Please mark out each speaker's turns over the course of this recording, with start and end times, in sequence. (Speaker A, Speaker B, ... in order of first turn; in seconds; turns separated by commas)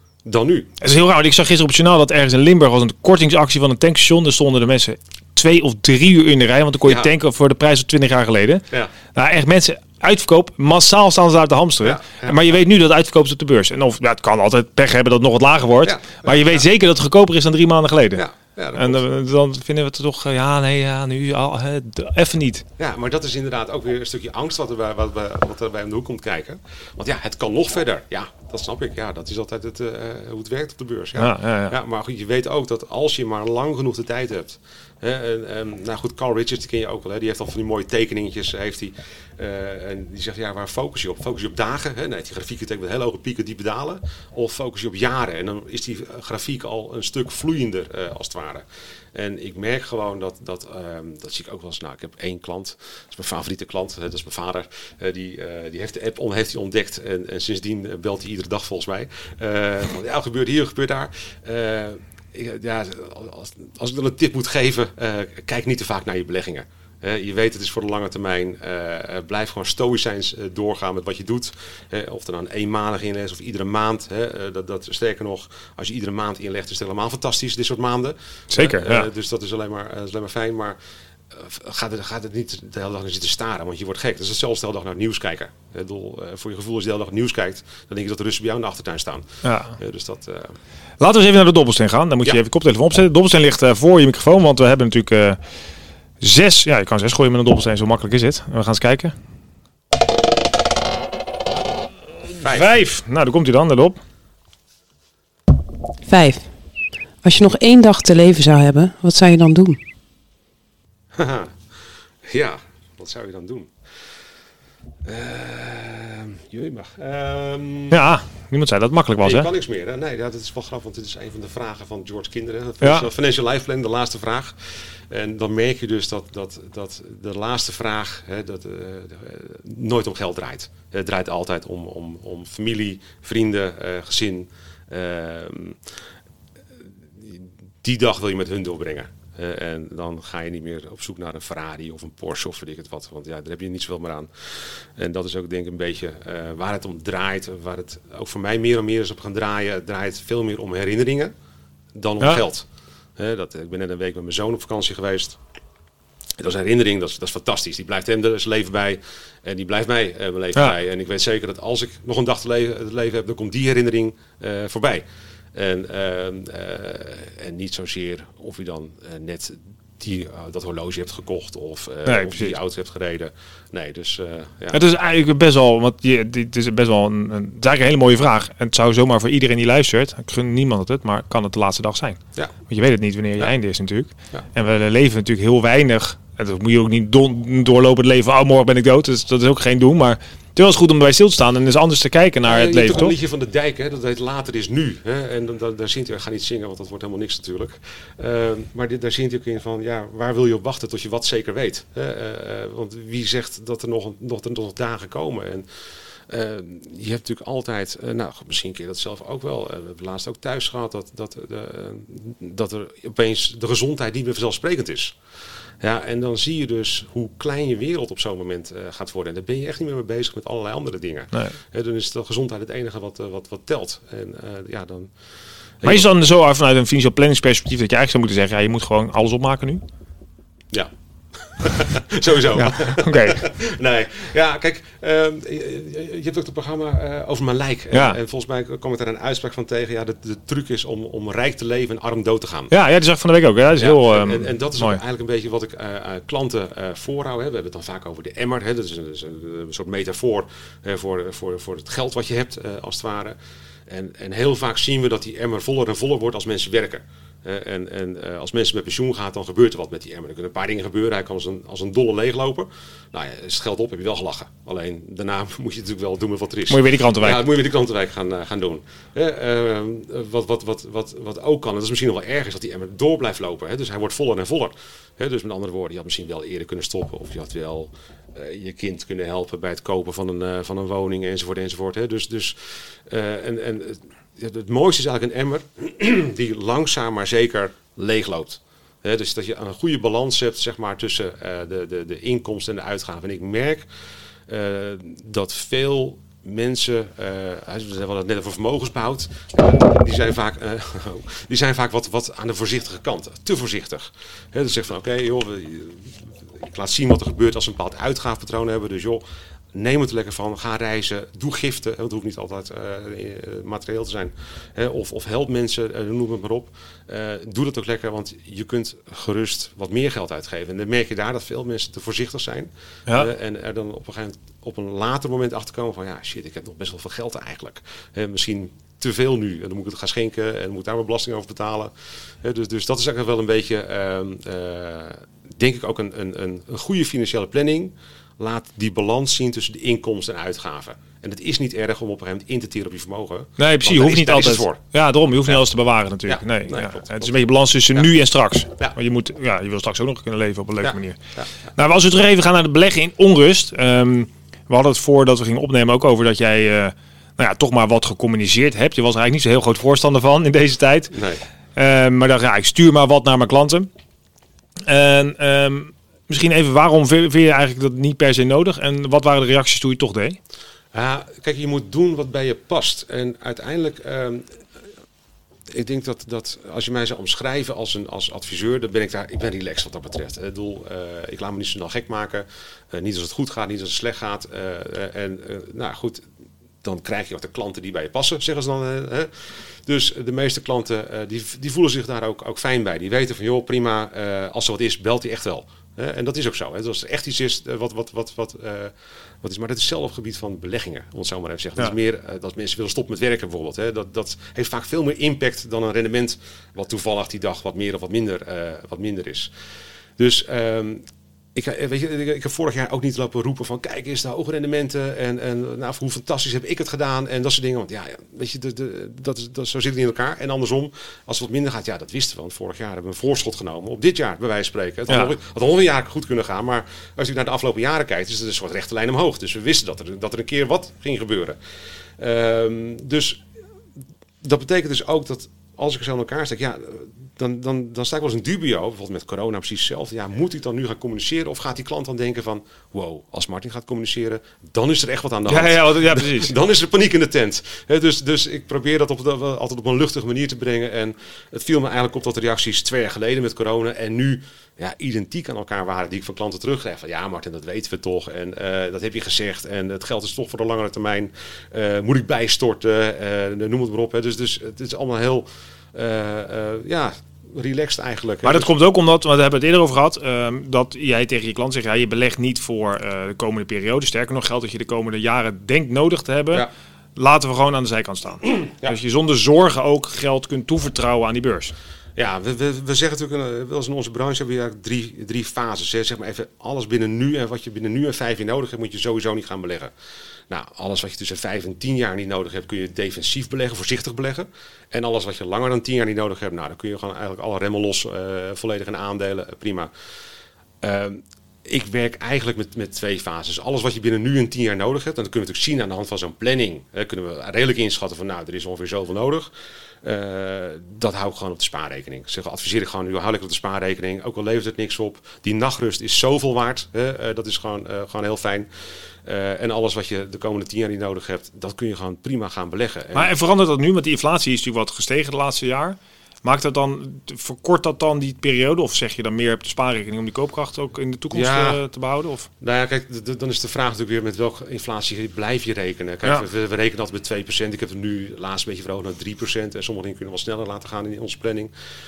Speaker A: 0.2-0.7, Speaker B: 0.8-22.6, Speaker A: 6.8-7.1, Speaker A: 11.8-12.6, Speaker A: 15.8-16.6, Speaker A: 18.1-19.0, Speaker A: 22.8-80.8, Speaker B: 31.2-31.8, Speaker B: 78.5-79.1, Speaker A: 81.3-90.5, Speaker B: 89.4-89.8, Speaker B: 91.0-95.4, Speaker B: 96.2-99.1, Speaker B: 102.3-104.0, Speaker C: 106.1-106.5, Speaker C: 107.2-109.8, Speaker A: 111.1-111.6, Speaker A: 112.2-113.7, Speaker A: 115.0-118.0, Speaker B: 117.9-119.5, Speaker A: 119.2-135.8, Speaker A: 136.8-151.3, Speaker A: 151.9-155.4, Speaker A: 156.4-174.8, Speaker B: 172.1-172.5, Speaker B: 174.7-193.1, Speaker A: 192.4-205.7, Speaker A: 206.3-215.2, Speaker A: 215.8-225.1, Speaker A: 225.8-226.1, Speaker B: 225.8-229.8, Speaker A: 230.7-242.7, Speaker B: 232.5-233.4, Speaker B: 237.9-238.2, Speaker B: 242.7-245.0, Speaker A: 243.8-293.9, Speaker B: 266.7-267.5, Speaker A: 294.5-309.2, Speaker A: 309.7-344.8, Speaker B: 343.6-351.2, Speaker A: 346.2-347.3, Speaker A: 350.8-351.5, Speaker B: 351.7-361.1, Speaker A: 361.1-361.4, Speaker B: 361.8-363.9, Speaker B: 364.9-370.4, Speaker A: 370.9-374.5, Speaker A: 375.7-386.2, Speaker A: 386.8-409.5, Speaker A: 410.2-431.6, Speaker A: 432.2-433.4, Speaker A: 434.4-468.7, Speaker B: 445.5-446.5, Speaker B: 468.4-476.6, Speaker B: 477.1-481.7, Speaker A: 482.1-489.9, Speaker A: 490.5-499.9, Speaker A: 500.8-518.7, Speaker A: 519.2-523.3, Speaker B: 523.1-532.5, Speaker A: 531.3-531.8, Speaker A: 532.6-541.7